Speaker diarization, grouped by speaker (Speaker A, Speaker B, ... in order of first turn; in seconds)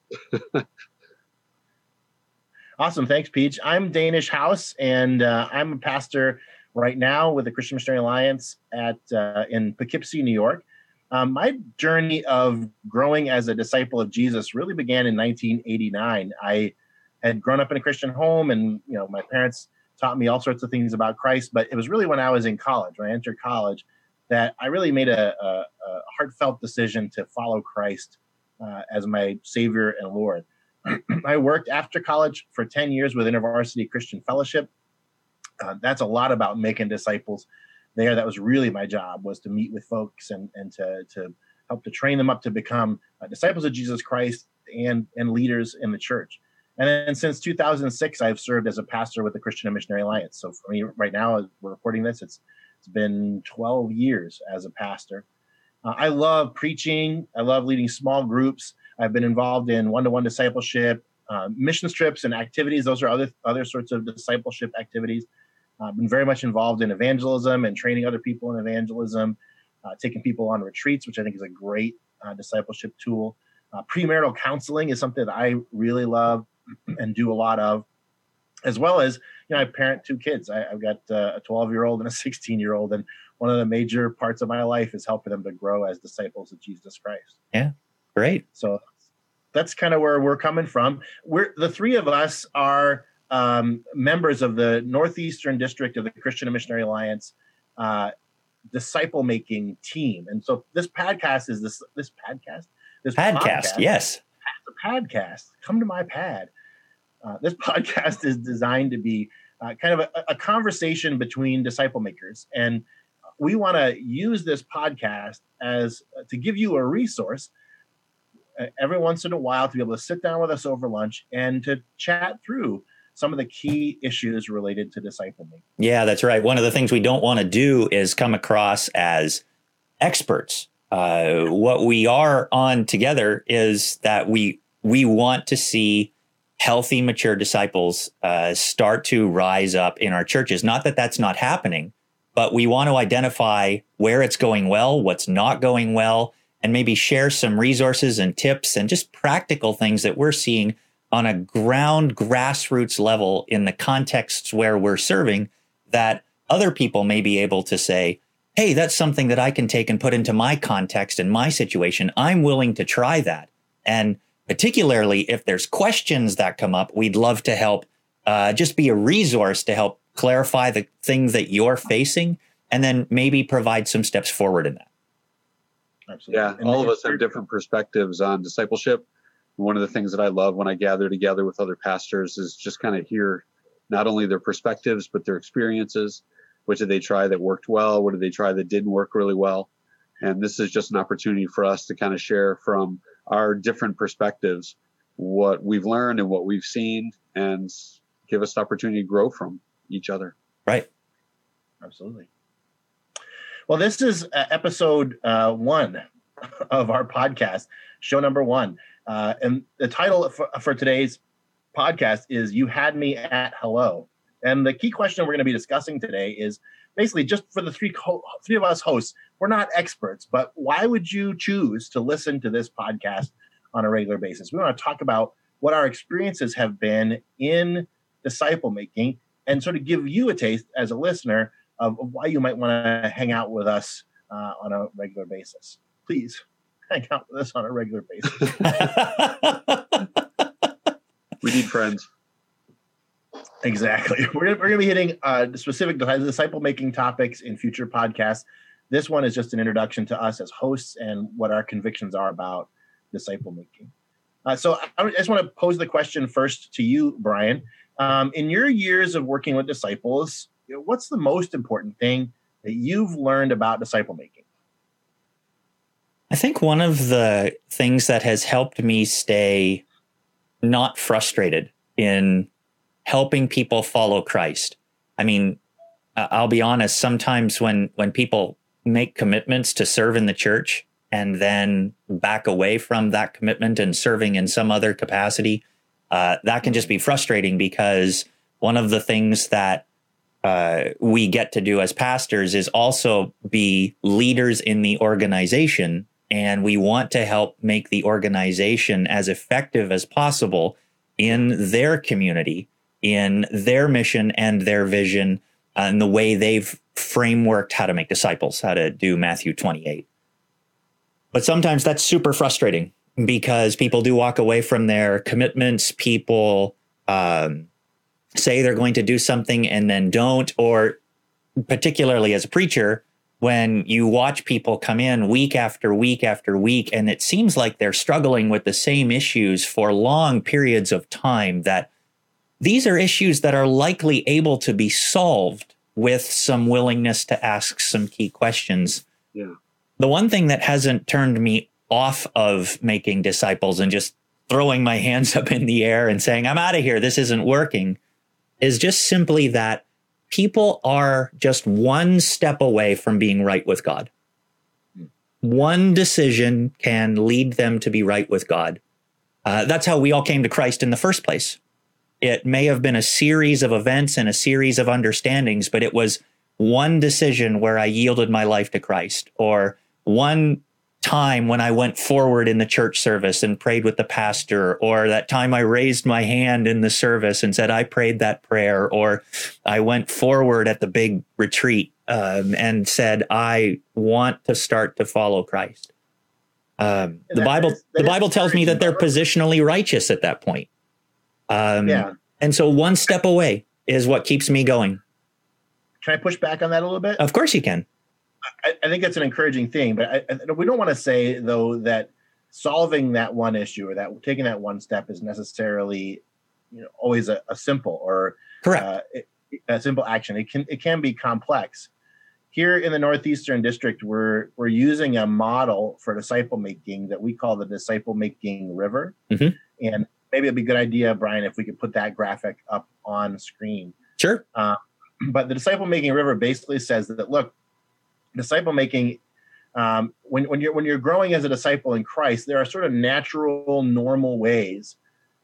Speaker A: 0.3-0.6, 176.3-179.0, 179.6-200.3, 241.4-242.1
Speaker B: 2.8-34.7, 35.6-55.2, 55.8-65.3, 65.8-77.8, 78.7-87.3, 88.5-88.9, 89.5-98.1, 98.7-103.9, 104.5-106.5, 107.2-112.8, 113.4-117.5, 118.6-125.6, 176.1-177.3, 201.8-202.3, 203.7-206.0, 206.6-211.2, 211.7-238.9, 243.6-253.9, 254.4-264.4, 387.3-389.1, 391.8-392.1, 396.0-397.2, 398.6-411.9, 412.5-419.2, 419.8-424.0, 424.5-427.5, 428.3-429.2, 429.8-434.9
Speaker C: 87.5-88.4, 103.2-104.2, 125.8-129.4, 130.0-174.9, 238.8-240.0, 266.3-269.8, 270.6-272.5, 273.0-275.6, 276.1-289.8, 290.4-310.0, 311.3-317.7, 318.3-321.0, 321.7-331.9, 332.6-339.0, 340.0-348.0, 348.6-354.1, 355.4-358.8, 359.4-361.6, 362.2-385.9, 386.8-390.7, 391.5-395.0, 397.2-397.8, 419.3-419.6, 424.2-424.4